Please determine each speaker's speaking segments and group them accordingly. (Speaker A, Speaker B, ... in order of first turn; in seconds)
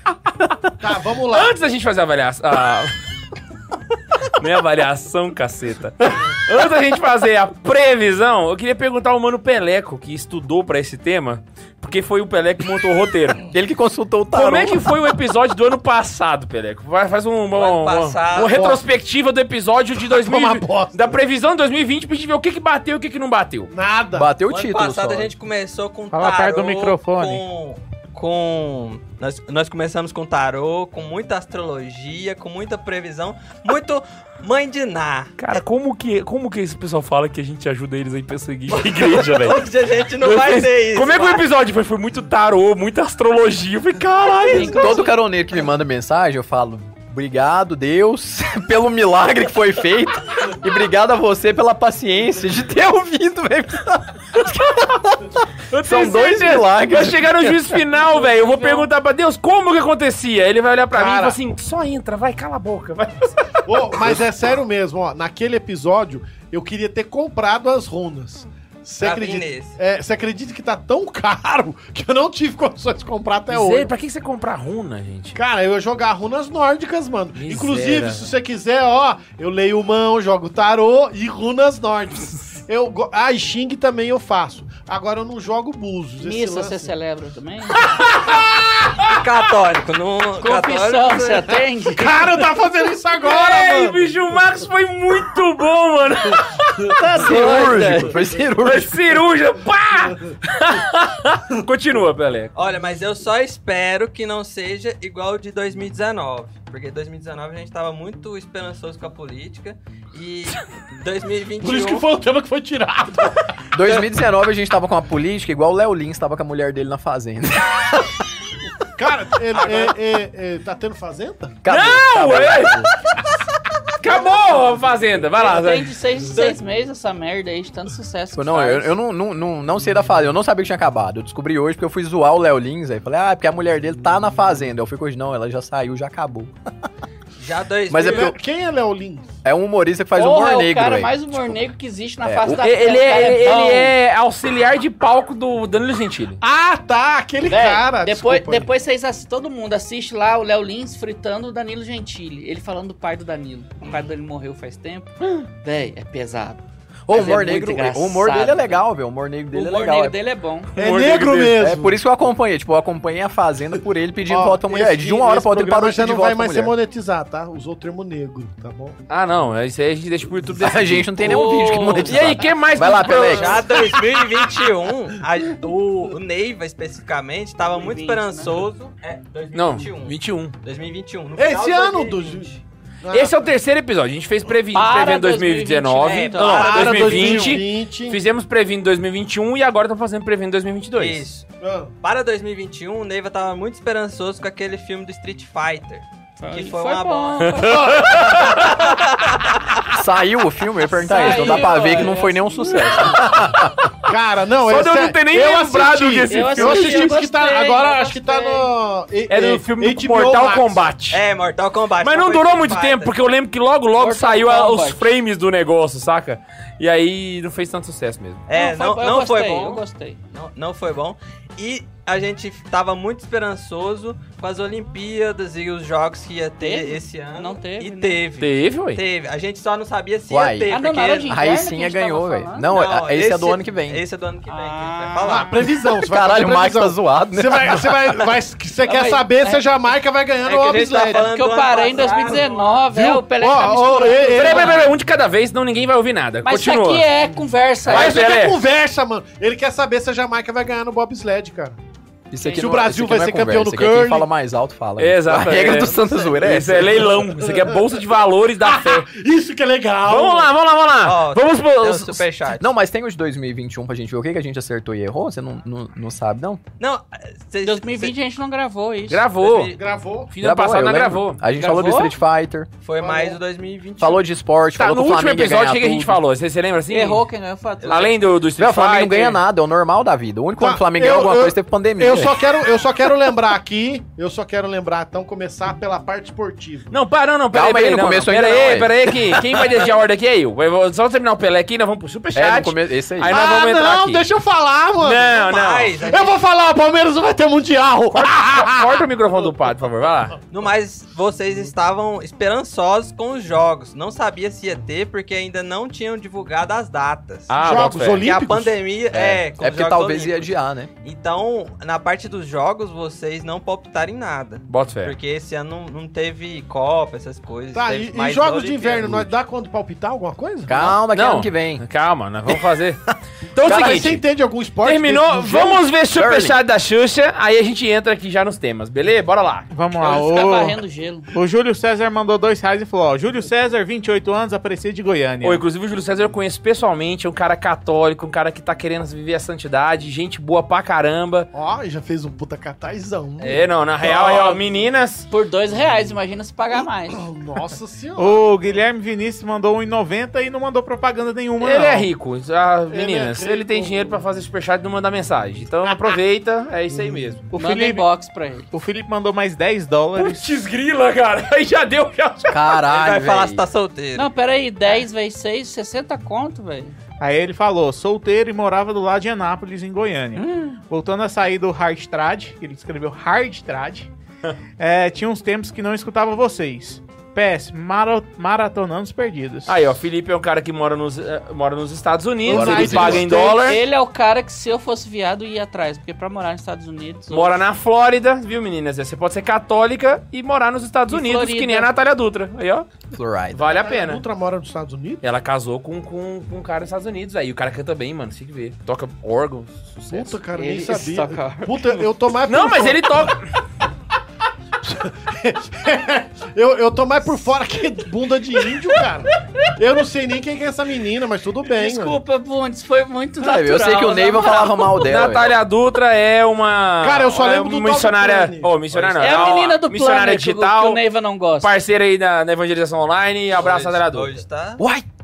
Speaker A: 0.8-1.6, 18.5-18.8, 20.0-21.2, 23.7-24.3, 60.9-61.4, 63.6-73.9, 75.3-86.9, 88.3-88.5, 91.9-94.1, 111.6-113.6, 119.0-121.6, 138.0-139.3, 146.4-148.7, 160.8-162.0, 164.2-169.0, 181.3-183.5, 186.5-188.2, 191.6-191.9, 197.7-198.6, 204.1-210.9, 235.2-241.3, 242.9-244.9, 247.9-251.8, 252.5-254.3, 257.1-258.0, 258.6-260.5, 269.7-270.3, 273.0-273.4, 280.6-286.9, 293.3-295.4, 296.0-299.5, 307.6-308.8, 317.7-320.9, 323.6-325.8, 341.5-344.8, 347.2-348.6, 352.9-354.2, 356.9-357.3, 382.4-383.8, 393.7-395.2, 400.1-403.3, 404.8-412.2, 417.0-418.7
Speaker B: 1.3-2.9, 4.2-13.5, 14.3-23.7, 35.4-39.6, 40.2-44.9, 55.7-64.2, 73.5-75.4, 77.3-78.3, 87.9-88.5, 93.2-97.0, 98.6-102.5, 121.7-122.9, 124.0-125.9, 142.5-146.4, 160.8-161.6, 169.1-173.7, 179.5-180.5, 183.1-191.2, 197.4-199.0, 203.1-203.9, 204.6-207.2, 209.3-211.2, 212.0-218.4, 228.4-229.0, 244.3-247.1, 247.9-248.6, 255.0-259.1, 260.1-262.2, 269.1-269.7, 270.3-271.4, 274.8-277.2, 277.9-279.4, 286.9-294.2, 295.0-295.9, 298.1-300.4, 307.5-308.3, 314.7-315.1, 321.1-323.0, 323.5-324.2, 324.8-329.7, 335.4-341.5, 343.4-345.3, 351.6-357.5, 360.1-362.7, 379.7-383.8, 387.3-392.9, 393.5-394.2, 395.2-400.4, 402.4-403.5, 415.0-421.0, 421.6-424.4
Speaker C: 13.5-14.9, 24.1-25.3, 44.5-57.8, 97.0-99.0, 113.7-118.1, 121.6-122.9, 128.3-136.5, 137.9-138.3, 139.4-141.6, 142.2-142.6, 157.1-160.2, 161.4-166.7, 170.5-173.7, 199.9-203.7, 230.3-230.8, 231.3-234.0, 236.0-238.3, 252.3-257.1, 262.6-266.6, 270.4-272.7, 274.0-276.2, 278.6-282.5, 287.5-289.4, 292.3-293.3, 309.1-310.9, 320.7-321.8, 323.6-324.2, 326.1-326.6, 362.5-363.6, 382.4-383.4, 393.1-393.6, 413.4-415.5, 424.8-425.1
Speaker D: 17.5-18.6, 24.5-35.6, 38.7-41.4, 69.0-69.8, 89.1-91.5, 102.5-112.1, 119.5-119.9, 126.3-126.6, 137.4-138.3, 173.2-182.6, 186.0-187.6, 190.9-191.5, 192.0-199.5, 201.3-202.0, 211.1-213.1, 218.5-231.4, 232.7-235.7, 240.4-242.8, 255.9-256.4, 261.0-262.7, 266.8-268.1, 269.4-269.8, 272.8-274.2, 277.8-278.1, 295.4-296.4, 300.5-310.5, 311.0-319.3, 362.8-364.3, 418.9-419.6, 423.5-424.8
Speaker E: 26.1-27.4, 329.7-330.8, 331.3-335.6, 348.2-352.1, 357.5-358.1, 358.7-360.5, 367.2-374.1, 374.8-379.8
Speaker F: 44.5-45.2, 58.2-58.8, 86.2-87.8, 90.4-92.2, 97.0-98.2, 125.3-128.9, 140.1-143.9, 147.5-158.8, 159.5-160.7, 171.2-172.1, 177.7-178.6, 184.7-186.7, 196.4-198.1, 201.0-203.1, 206.3-208.7, 213.9-215.1, 218.5-220.2, 226.6-228.2, 230.7-232.7, 234.5-235.6, 238.8-239.6, 241.1-244.9, 246.4-248.2, 252.4-252.7, 267.6-269.2, 271.5-272.1, 276.9-278.1, 330.0-331.3, 345.3-347.2, 357.5-358.7, 364.1-366.9, 383.4-387.6, 391.1-391.9, 400.5-402.0, 411.6-415.1, 419.2-421.7